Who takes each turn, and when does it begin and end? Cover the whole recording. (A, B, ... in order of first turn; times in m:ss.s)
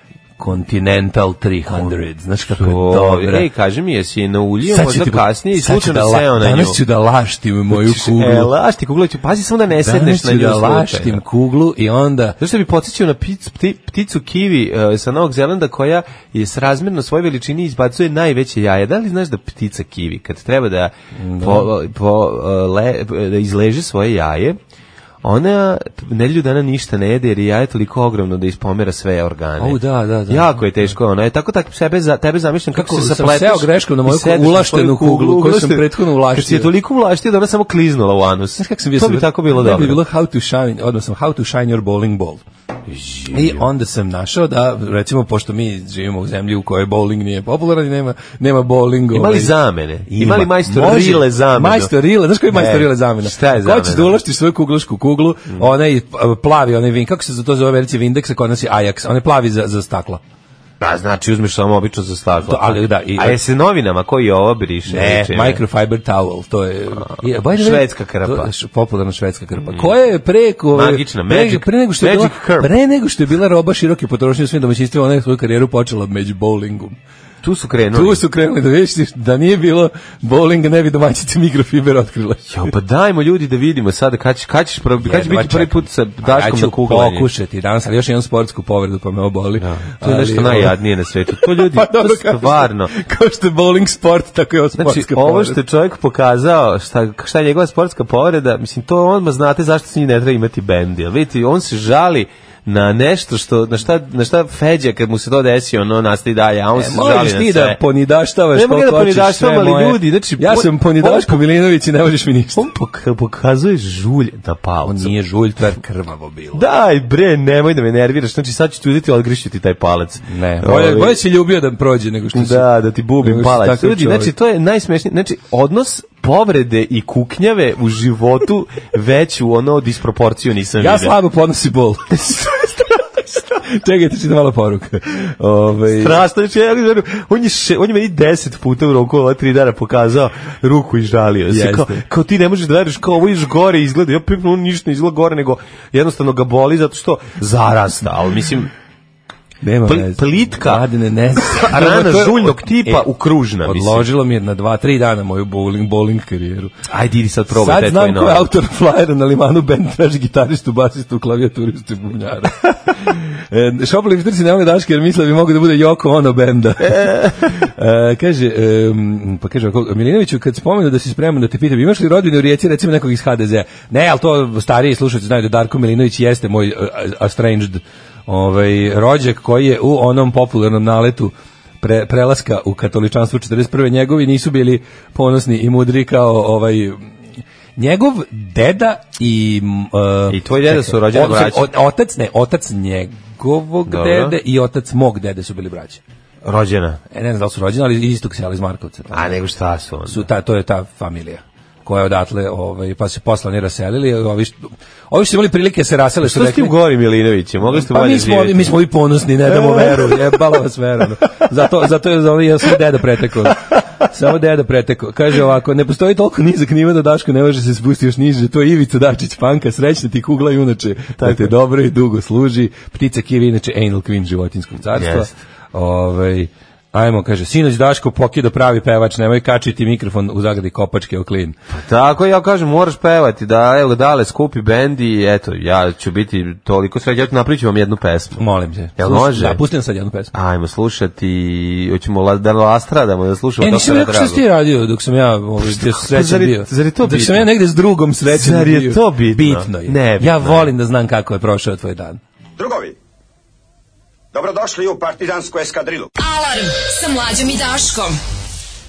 0:00.4-0:03.5 A
0:01.7-0:01.9 B
0:02.5-0:06.8 B
0:04.6-0:08.5 A
0:07.7-0:11.2 B
0:09.8-0:12.4 A
0:12.4-0:24.6 B
0:21.2-0:21.7 A
0:25.2-0:40.0 B
0:29.6-0:30.9 A
0:32.7-0:36.7 A
0:38.6-0:42.4 A
0:42.9-0:43.6 B
0:43.3-1:00.2 A
0:49.1-0:51.9 B
0:52.5-0:54.2 B
1:00.8-1:05.6 B
1:02.5-1:03.4 A
1:04.9-1:17.0 A
1:07.1-1:08.5 B
1:09.6-1:09.9 B
1:10.7-1:12.7 B
1:17.4-1:18.2 B
1:17.9-1:22.7 A
1:22.5-1:27.3 B
1:25.0-1:35.6 A
1:29.6-1:32.9 B
1:34.8-1:47.8 B
1:46.8-1:52.6 A
1:48.5-1:51.4 B
1:52.5-1:55.1 B
1:54.8-1:56.6 A
1:56.5-2:01.2 B
2:00.3-2:02.7 A
2:02.3-2:11.1 B
2:03.2-2:04.3 A
2:10.8-2:16.2 A
2:15.9-2:28.7 B
2:21.5-2:22.0 A
2:29.6-2:33.1 A
2:29.8-2:30.8 B
2:31.4-2:34.1 B
2:33.6-2:36.7 A
2:36.9-2:38.5 B
2:37.5-3:07.1 A
2:46.9-2:47.3 B
3:07.8-3:16.0 A
3:10.3-3:11.7 B
3:13.9-3:14.4 B
3:16.4-3:17.0 B
3:17.1-3:19.4 A
3:19.1-3:20.3 B
3:20.1-3:26.8 A
3:26.2-3:28.8 B
3:27.7-3:51.5 A
3:29.5-3:30.4 B
3:41.2-3:41.5 B
3:44.9-3:45.3 B
3:51.7-3:58.4 B
3:58.4-4:00.3 A
3:59.0-3:59.6 B
4:00.3-4:04.4 B
4:03.6-4:12.2 A
4:05.6-4:07.5 B
4:08.3-4:10.7 B
4:12.6-4:13.0 C
4:14.3-4:16.1 C
4:16.2-4:18.2 D